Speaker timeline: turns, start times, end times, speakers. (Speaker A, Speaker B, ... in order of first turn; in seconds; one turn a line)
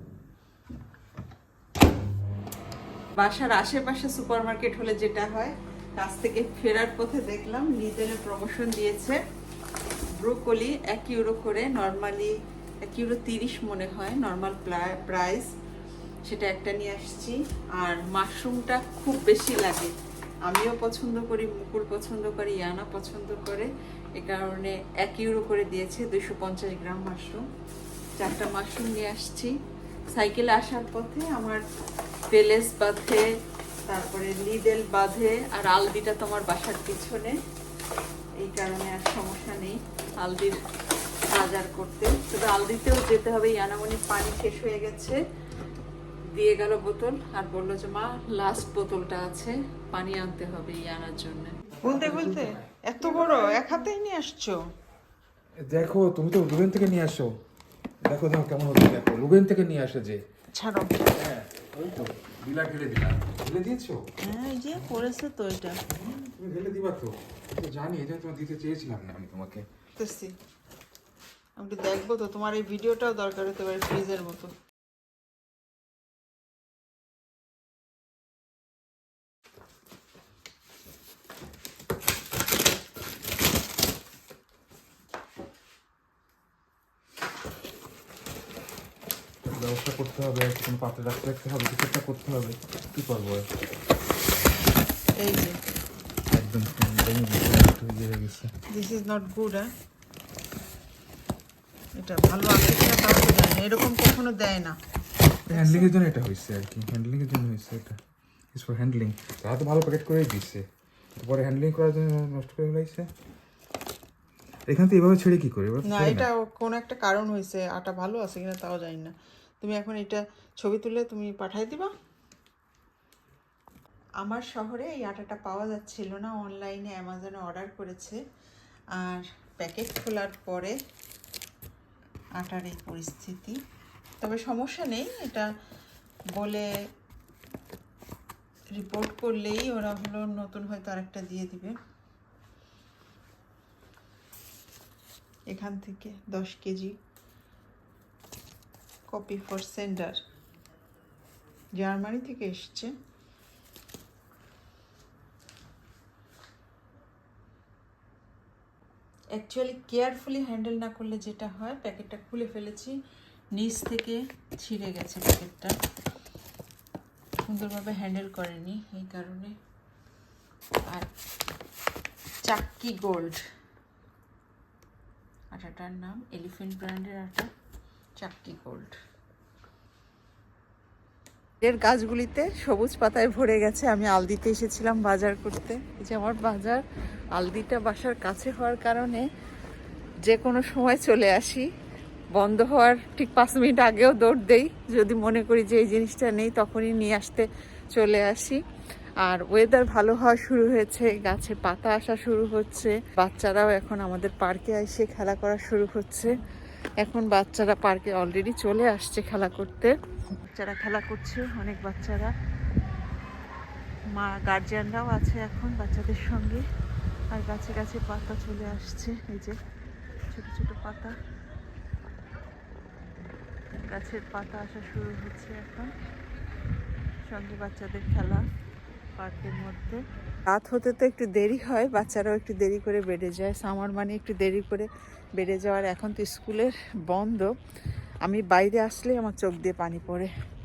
Speaker A: 3.2-9.2
Speaker A: 10.2-15.5
Speaker A: 16.3-19.9
Speaker A: 20.5-27.4
Speaker A: 28.2-29.5
Speaker A: 30.1-31.6
Speaker A: 32.3-33.2
Speaker A: 33.9-37.4
Speaker A: 38.4-40.6
Speaker A: 41.3-45.2
Speaker A: 46.3-54.6
Speaker B: 51.8-52.5
Speaker B: 55.6-57.3
Speaker B: 58.0-60.2
Speaker A: 60.5-61.0
Speaker B: 61.1-64.0
Speaker A: 64.2-65.8
Speaker B: 65.9-69.7
Speaker A: 70.0-70.3
Speaker A: 71.6-74.5
Speaker B: 89.5-93.4
Speaker A: 95.2-95.6
Speaker B: 96.3-98.5
Speaker A: 98.7-99.7
Speaker A: 102.0-104.8
Speaker A: 105.5-105.9
Speaker B: 105.5-108.0
Speaker B: 108.5-110.6
Speaker B: 111.2-113.1
Speaker B: 114.7-116.3
Speaker A: 115.8-121.9
Speaker A: 124.2-128.2
Speaker A: 129.0-130.8
Speaker A: 132.4-133.6
Speaker A: 134.2-135.5
Speaker A: 136.4-136.7
Speaker A: 138.8-141.8
Speaker A: 145.5-146.9
Speaker A: 149.1-150.2
Speaker A: 151.8-152.9
Speaker A: 159.3-163.0
Speaker A: 163.5-165.8
Speaker A: 167.5-169.6
Speaker A: 172.4-173.4
Speaker A: 175.5-177.5
Speaker A: 178.2-179.0
Speaker A: 181.6-186.8
Speaker A: 187.4-189.3
Speaker A: 190.3-191.7
Speaker A: 192.3-198.6
Speaker A: 199.2-206.3
Speaker A: 207.0-212.3
Speaker A: 214.2-216.6
Speaker A: 217.3-219.6
Speaker A: 220.3-221.2
Speaker A: 223.8-225.9
Speaker A: 227.3-228.4
Speaker A: 229.2-237.5
Speaker A: 238.2-240.3